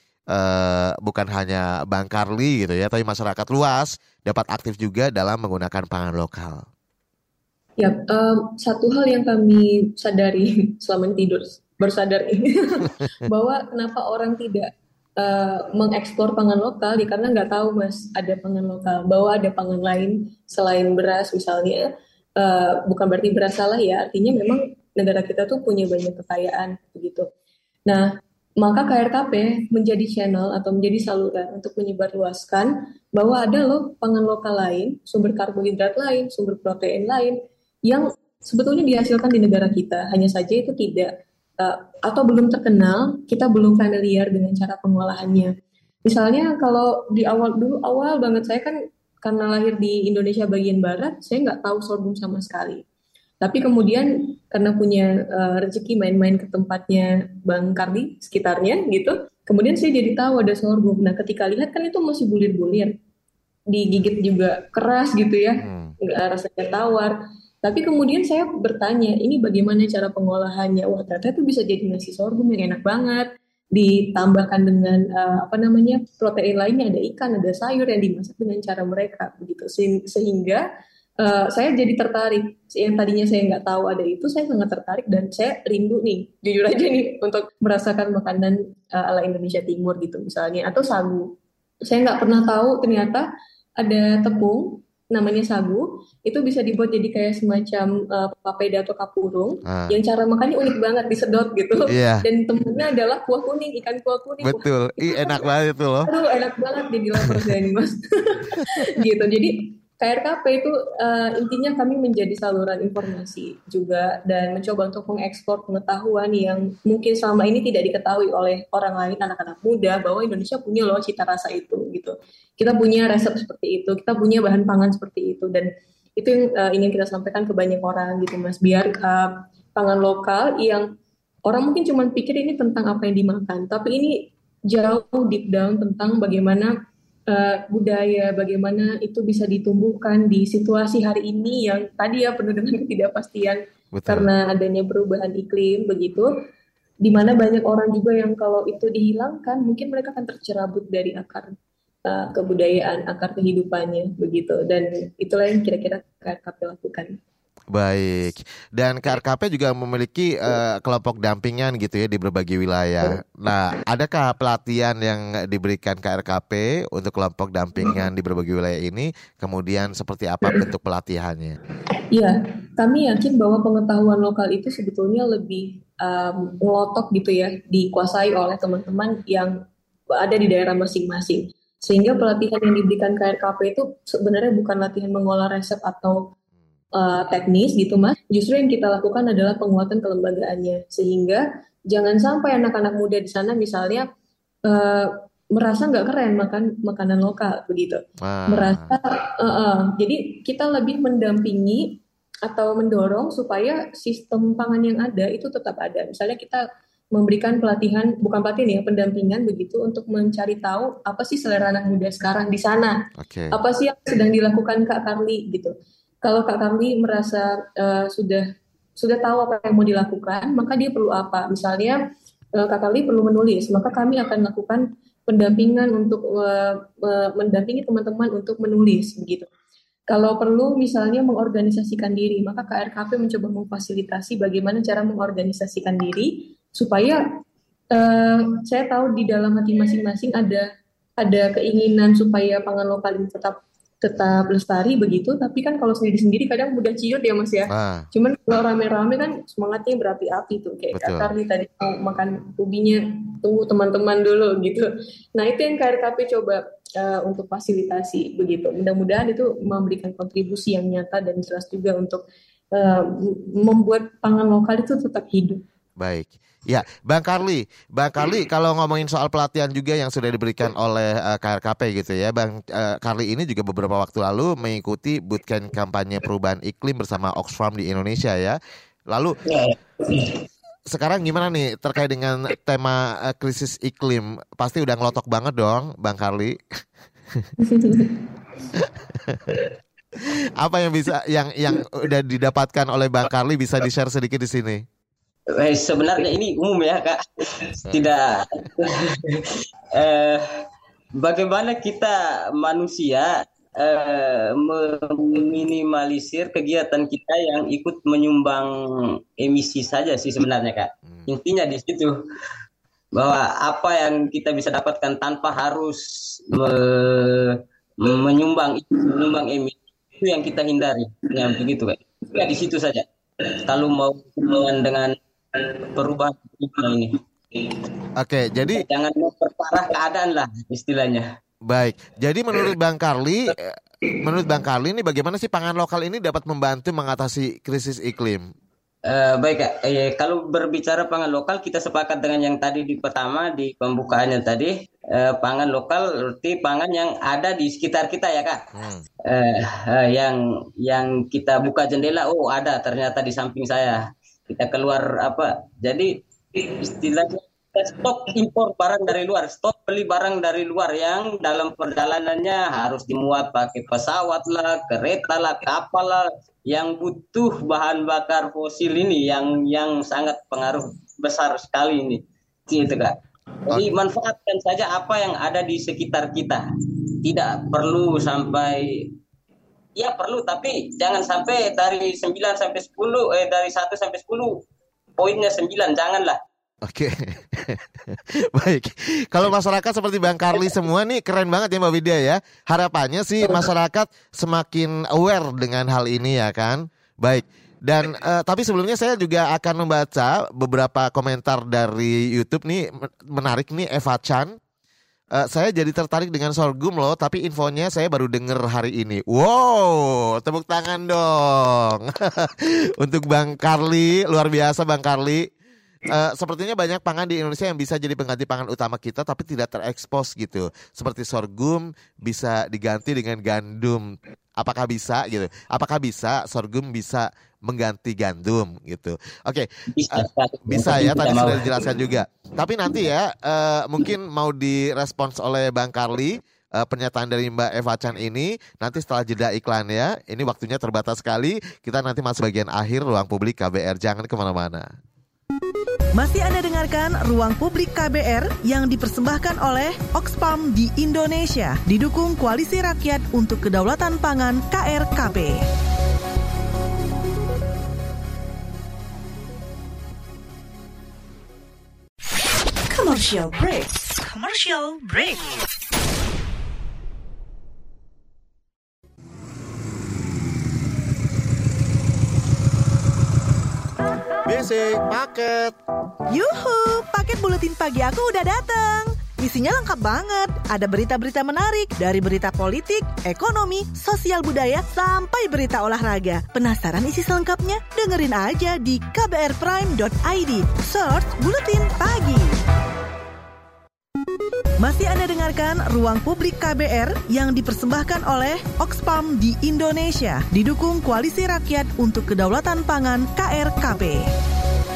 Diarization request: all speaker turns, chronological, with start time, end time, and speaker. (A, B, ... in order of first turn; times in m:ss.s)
0:00.3-0:06.7 A
0:07.8-0:21.9 B
0:22.4-0:27.3 B
0:28.6-0:37.4 B
0:37.9-0:45.5 B
0:46.0-0:52.8 B
0:53.4-1:02.9 B
1:03.7-1:20.6 B
1:05.6-1:05.9 A
1:21.2-1:31.3 B
1:31.9-1:33.2 B
1:33.8-1:45.4 B
1:39.6-1:40.0 A
1:41.9-1:42.2 A
1:44.4-1:46.1 A
1:46.0-2:10.9 B
2:11.4-2:16.7 B
2:17.3-2:26.3 B
2:23.9-2:24.3 A
2:27.0-2:31.5 B
2:32.1-2:37.2 B
2:37.7-2:51.6 A
2:52.1-2:59.5 B
3:00.1-3:06.3 B
3:07.0-3:14.1 B
3:14.7-3:33.0 B
3:18.2-3:18.9 A
3:33.2-3:33.5 A
3:33.5-3:35.7 B
3:36.2-3:38.4 B
3:39.0-3:42.0 B
3:42.6-3:49.5 B
3:50.1-3:57.2 B
3:57.9-4:00.7 B
4:01.2-4:25.6 B
4:07.7-4:08.1 A
4:10.9-4:11.3 A
4:26.0-4:38.6 A
4:39.1-4:39.4 A
4:39.5-4:40.4 C
4:40.9-4:46.6 A
4:47.6-4:48.2 B
4:48.8-4:49.7 A
4:50.2-4:54.8 A
4:55.5-5:00.5 C
5:01.2-5:12.2 C
5:13.1-5:27.9 C
5:28.2-5:28.8 A
5:28.6-5:31.3 C
5:31.6-5:38.5 A
5:39.1-5:48.6 C
5:48.8-5:49.1 A
5:49.3-6:13.2 C
6:13.7-6:16.6 C
6:17.2-6:19.1 C
6:20.0-6:24.6 C
6:25.2-6:26.4 C
6:26.8-6:44.6 A
6:45.4-6:55.5 A
6:56.1-7:24.9 A
7:09.9-7:11.9 C
7:26.2-7:35.6 D
7:42.9-7:45.5 E
7:54.4-7:55.8 A
7:56.3-8:12.6 D
8:14.8-8:24.3 D